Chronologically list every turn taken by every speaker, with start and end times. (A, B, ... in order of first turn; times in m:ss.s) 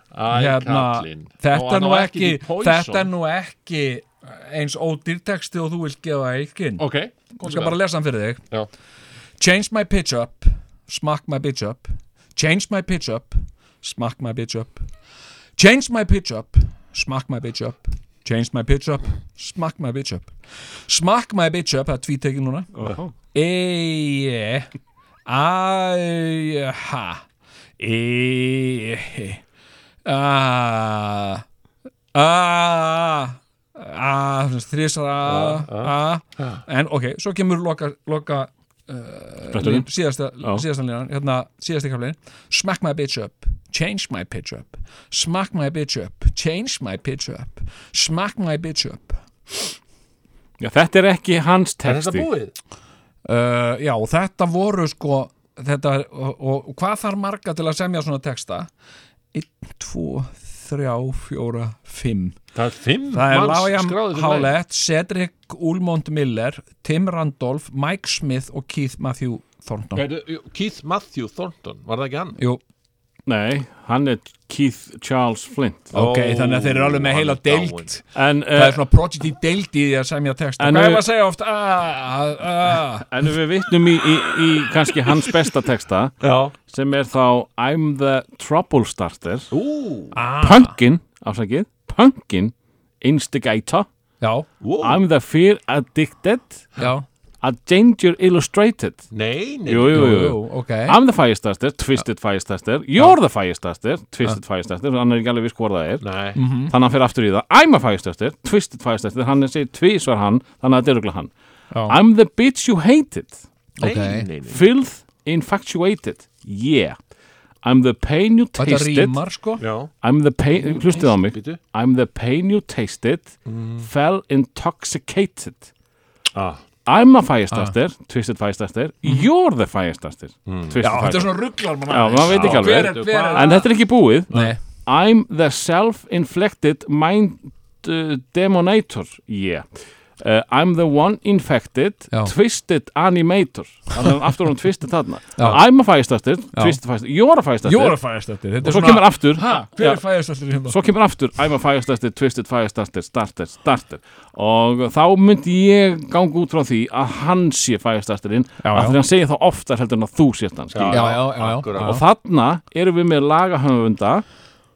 0:00.1-0:03.1 A
0:00.3-0:06.9 B
0:06.8-0:07.8 A
0:07.4-0:08.4 B
0:09.4-0:14.9 B
0:15.6-0:20.3 B
0:20.9-0:22.7 B
0:22.8-0:23.1 C
0:23.3-0:24.7 B
0:25.3-0:27.2 B
0:27.8-0:29.4 B
0:30.0-0:31.4 B
0:32.1-0:49.7 B
0:35.2-0:36.6 A
0:39.5-0:39.9 C
0:50.6-0:52.3 C
0:51.8-0:52.6 A
0:53.2-0:58.7 B
0:59.3-1:02.4 B
1:02.6-1:04.6 A
1:03.1-1:10.0 B
1:10.0-1:12.4 A
1:12.4-1:12.6 B
1:13.3-1:15.9 C
1:15.9-1:17.9 A
1:15.9-1:23.1 B
1:18.2-1:18.8 C
1:20.6-1:21.0 C
1:23.1-1:29.5 C
1:26.2-1:26.6 A
1:29.5-1:30.2 A
1:30.1-1:30.8 B
1:30.4-1:33.9 C
1:34.2-1:34.5 B
1:34.6-1:35.0 A
1:34.8-1:36.7 C
1:36.8-1:37.1 B
1:37.4-1:39.1 C
1:39.1-1:40.3 A
1:39.7-1:46.1 C
1:39.9-1:41.0 B
1:46.0-1:46.4 A
1:46.4-1:46.7 B
1:46.7-1:51.3 C
1:51.7-1:52.0 B
1:51.9-1:53.4 C
1:53.8-1:54.6 A
1:53.8-1:54.3 B
1:54.5-1:57.0 C
1:57.6-1:59.2 C
1:58.6-1:59.6 B
1:59.6-1:59.9 A
2:00.0-2:05.7 C
2:00.6-2:01.6 A
2:03.5-2:03.9 A
2:06.3-2:06.6 A
2:06.9-2:11.4 C
2:10.5-2:10.8 A
2:10.8-2:13.7 B
2:11.9-2:19.7 C
2:12.2-2:13.7 A
2:14.3-2:14.6 B
2:20.2-2:28.0 C
2:26.5-2:26.8 B
2:27.6-2:30.8 B
2:28.5-2:44.2 C
2:38.6-2:39.0 B
2:40.7-2:42.0 A
2:40.9-2:42.0 B